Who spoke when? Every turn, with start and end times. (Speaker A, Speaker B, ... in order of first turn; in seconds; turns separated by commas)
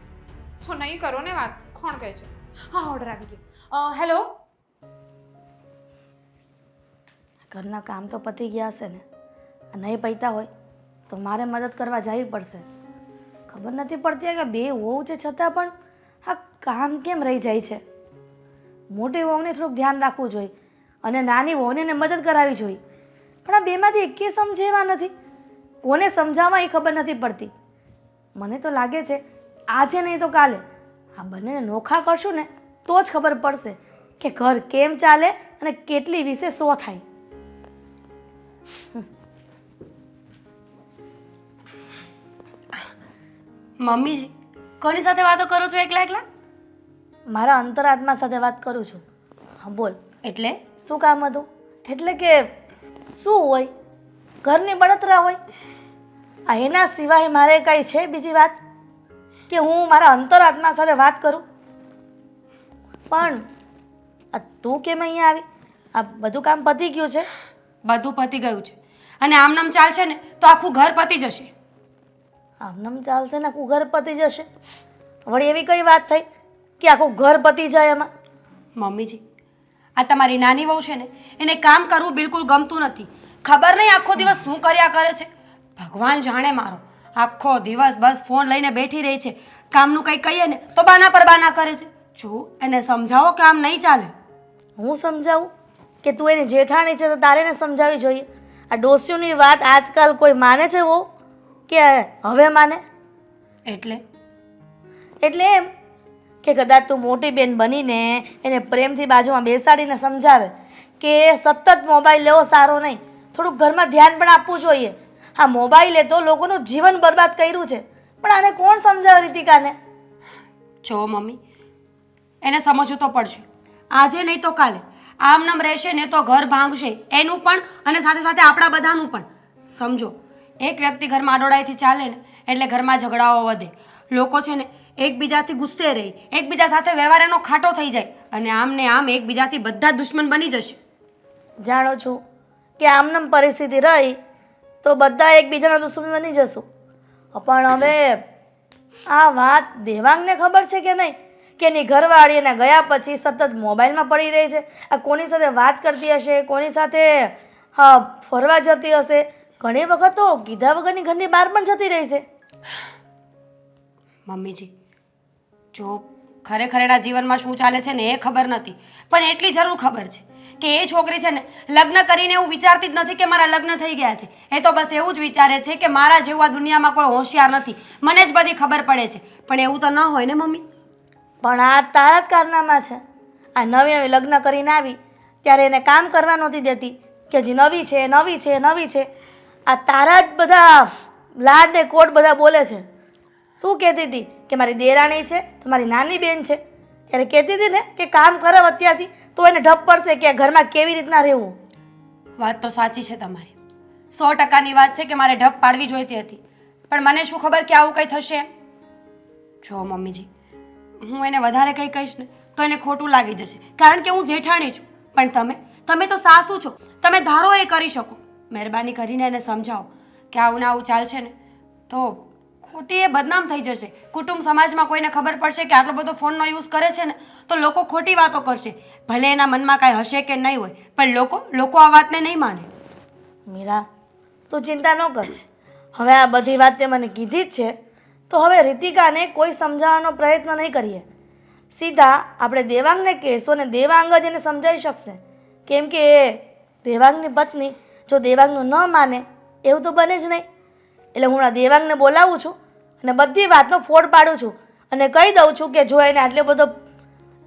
Speaker A: 0.6-4.3, Speaker B: 7.5-9.0, Speaker B: 9.7-10.5, Speaker B: 11.1-12.7, Speaker B: 13.5-15.7, Speaker B: 16.2-17.8, Speaker B: 18.9-20.5, Speaker B: 21.0-22.8, Speaker B: 23.5-25.1, Speaker B: 25.8-27.5, Speaker B: 28.4-29.2, Speaker B: 29.7-30.6, Speaker B: 31.2-37.0, Speaker C: 43.8-46.2, Speaker B: 47.3-49.0, Speaker B: 49.6-50.0, Speaker C: 50.2-50.6, Speaker B: 50.8-52.5, Speaker B: 53.1-53.7, Speaker B: 54.4-55.4, Speaker B: 56.5-58.6, Speaker B: 59.5-61.4, Speaker B: 63.1-63.4, Speaker B: 64.3-65.4, Speaker B: 66.0-67.3, Speaker C: 67.8-71.5, Speaker B: 72.6-74.5, Speaker B: 75.2-76.2, Speaker B: 76.8-78.1, Speaker C: 78.8-79.2, Speaker C: 80.0-94.1, Speaker B: 94.8-95.5, Speaker B: 96.0-101.1, Speaker B: 101.7-102.8, Speaker C: 103.7-104.0, Speaker B: 105.2-105.7, Speaker B: 106.4-119.8, Speaker C: 120.8-121.4, Speaker C: 122.4-140.8, Speaker B: 141.6-142.2, Speaker B: 142.8-144.2, Speaker B: 144.8-146.7, Speaker B: 147.3-148.2, Speaker B: 149.1-162.2, Speaker C: 164.2-164.7, Speaker C: 165.7-180.6, Speaker B: 181.4-183.0, Speaker B: 183.6-189.1, Speaker B: 189.7-192.8, Speaker B: 193.6-201.6, Speaker C: 202.4-203.5, Speaker C: 204.1-208.5, Speaker C: 209.6-210.3, Speaker C: 211.0-221.3, Speaker C: 221.9-232.7, Speaker B: 233.5-233.8, Speaker B: 234.5-235.3, Speaker B: 235.9-237.8, Speaker B: 238.3-241.0, Speaker B: 241.7-250.4, Speaker B: 251.2-256.8